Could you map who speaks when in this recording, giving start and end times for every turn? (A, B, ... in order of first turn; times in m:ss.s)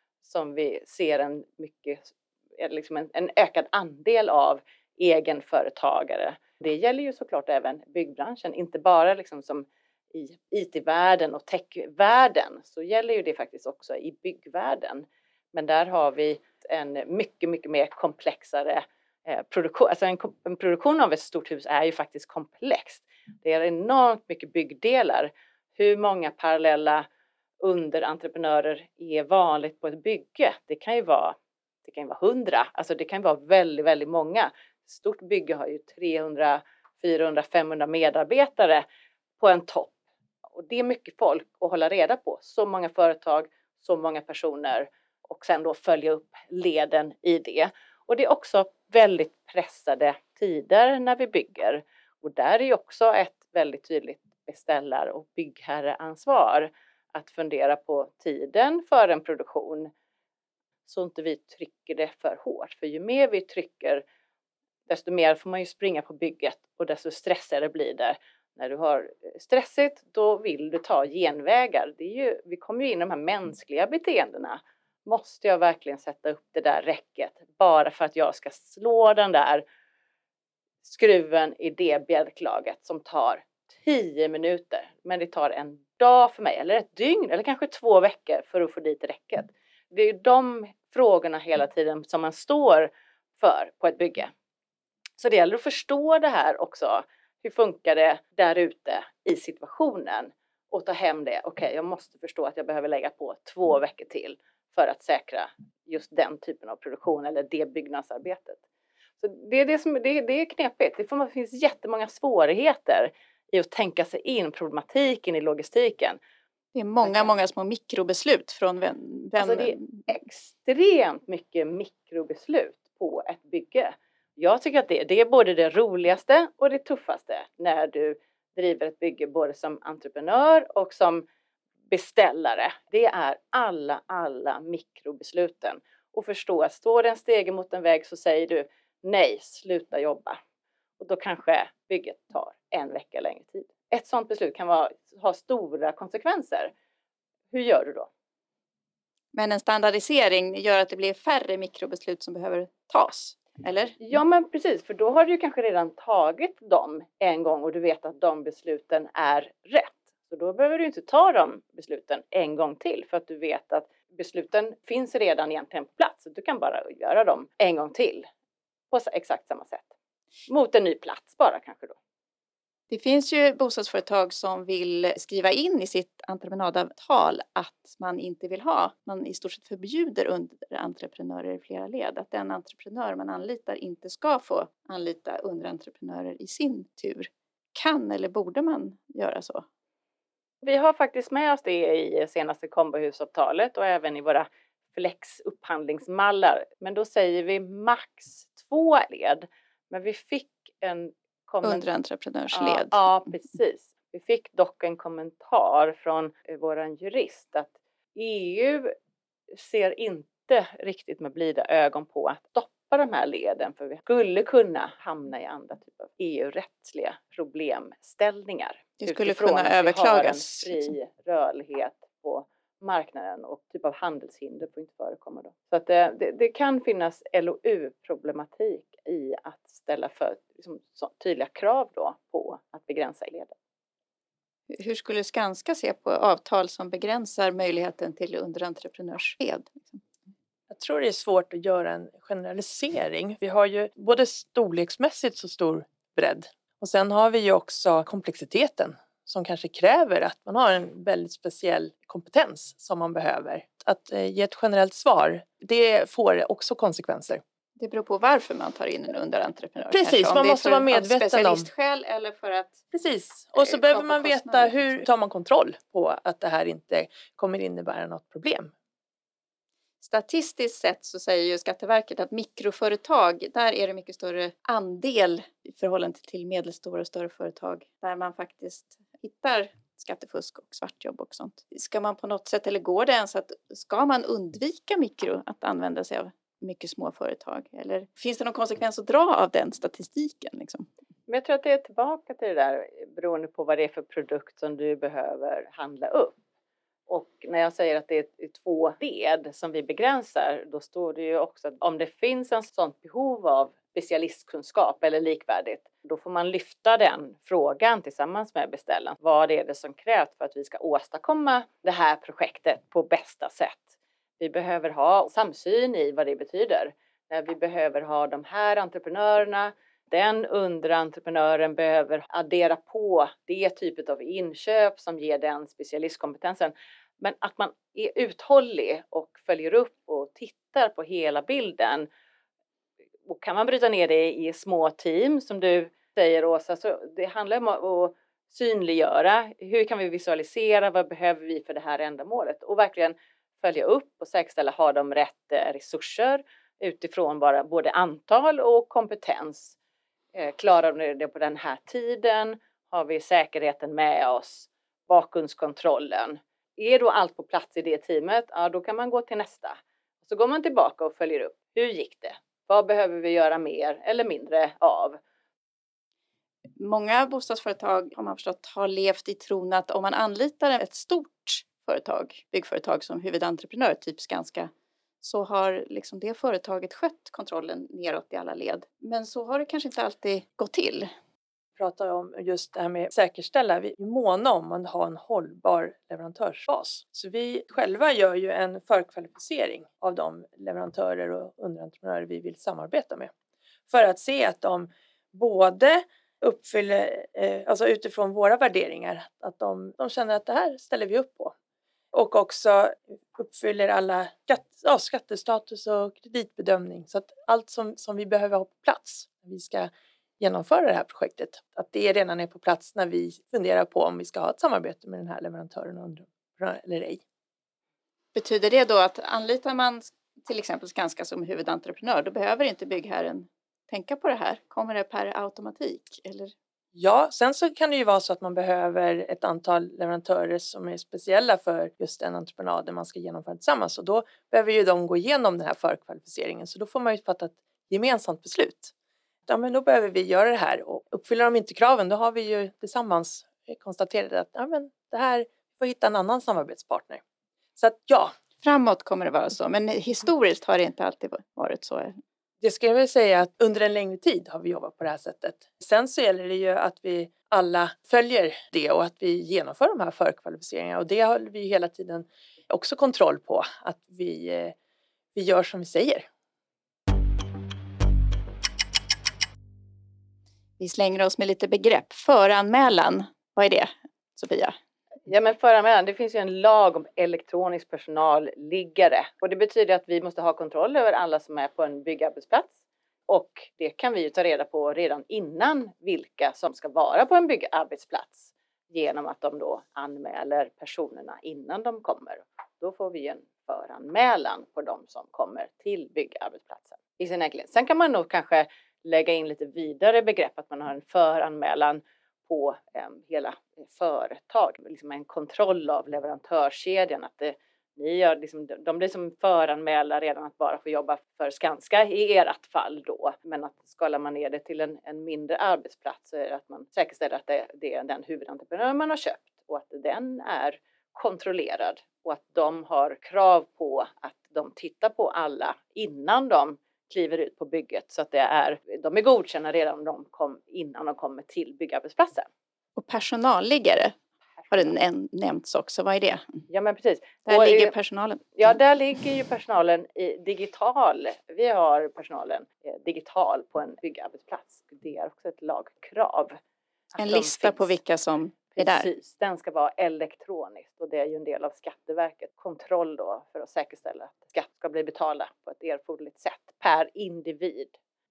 0:00.2-0:27.1 A
0:27.6-0:38.8 A
0:39.4-0:39.9 A
0:40.6-0:59.9 A
1:00.9-1:04.0 A
1:04.9-1:19.6 A
1:20.8-1:34.3 A
1:35.2-1:48.6 A
1:49.2-1:56.2 A
1:56.7-2:00.1 B
1:57.0-1:57.3 A
1:59.4-2:11.2 A
2:11.9-2:20.4 A
2:21.0-2:26.7 A
2:27.5-2:28.1 A
2:29.3-2:34.0 B
2:34.0-2:48.3 A
2:48.9-2:49.9 A
2:50.5-2:52.0 A
2:52.9-3:09.7 B
3:10.6-3:21.9 A
3:21.6-3:23.0 B
3:22.5-3:28.9 A
3:29.5-3:53.5 A
3:39.0-3:40.9 B
3:54.7-4:00.0 B
4:00.7-4:17.4 C
4:17.8-4:22.8 B
4:19.9-4:21.7 C
4:22.9-4:28.7 C
4:23.6-4:25.1 B
4:30.0-4:50.9 B
4:51.3-4:56.4 A
4:57.1-5:32.1 A
5:33.3-5:49.8 A
5:50.3-6:05.2 A
6:06.8-6:21.1 B
6:21.8-6:33.3 C
6:33.9-6:41.5 C
6:42.1-6:57.2 C
6:58.4-7:06.5 B
7:06.9-7:18.9 C
7:19.5-7:27.2 C
7:27.8-7:28.3 C
7:28.6-7:32.2 B
7:32.6-7:44.8 C
7:45.4-7:46.3 C
7:50.8-7:54.8 B
7:55.3-8:02.8 A
8:03.3-8:52.5 A
8:53.0-8:54.2 B
8:54.7-8:56.6 B
8:56.7-8:57.9 A
8:57.5-8:58.6 B
8:58.6-9:06.6 A
9:07.1-9:07.9 A
9:07.2-9:09.1 B
9:08.8-9:17.9 A